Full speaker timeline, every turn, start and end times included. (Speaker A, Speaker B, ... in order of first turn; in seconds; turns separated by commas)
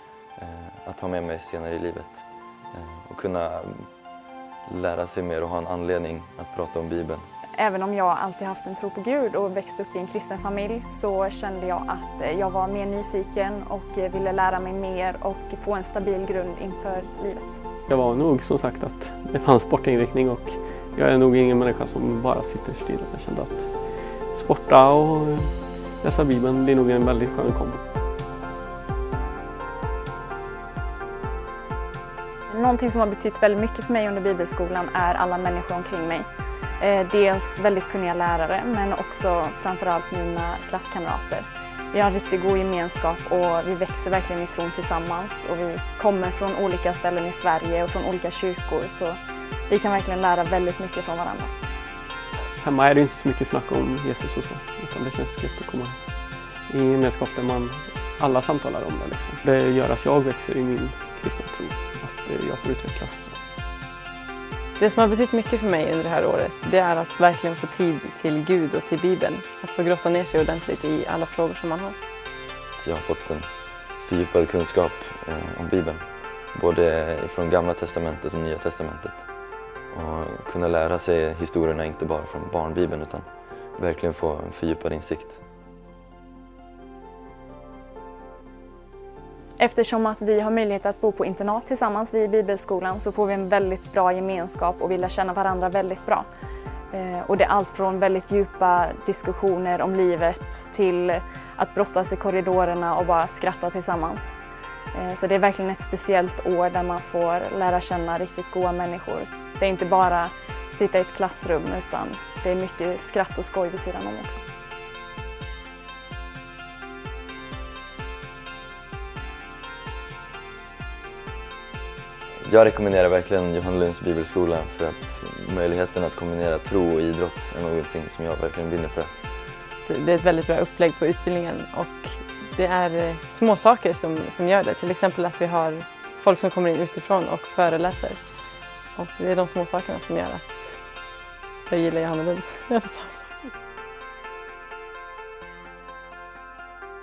Speaker A: 0.3-4.0, Speaker A: 4.7-7.3, Speaker B: 7.6-17.6, Speaker C: 17.9-23.7, Speaker C: 24.3-27.8, Speaker B: 32.5-36.3, Speaker B: 36.8-49.2, Speaker B: 49.7-51.5, Speaker C: 52.6-56.0, Speaker C: 56.7-63.4, Speaker D: 64.8-72.0, Speaker A: 72.8-79.3, Speaker A: 79.9-85.4, Speaker B: 89.6-96.2, Speaker B: 96.9-104.3, Speaker B: 104.9-114.4, Speaker A: 122.4-129.1, Speaker D: 129.8-138.4, Speaker D: 138.9-140.9, Speaker D: 141.7-143.5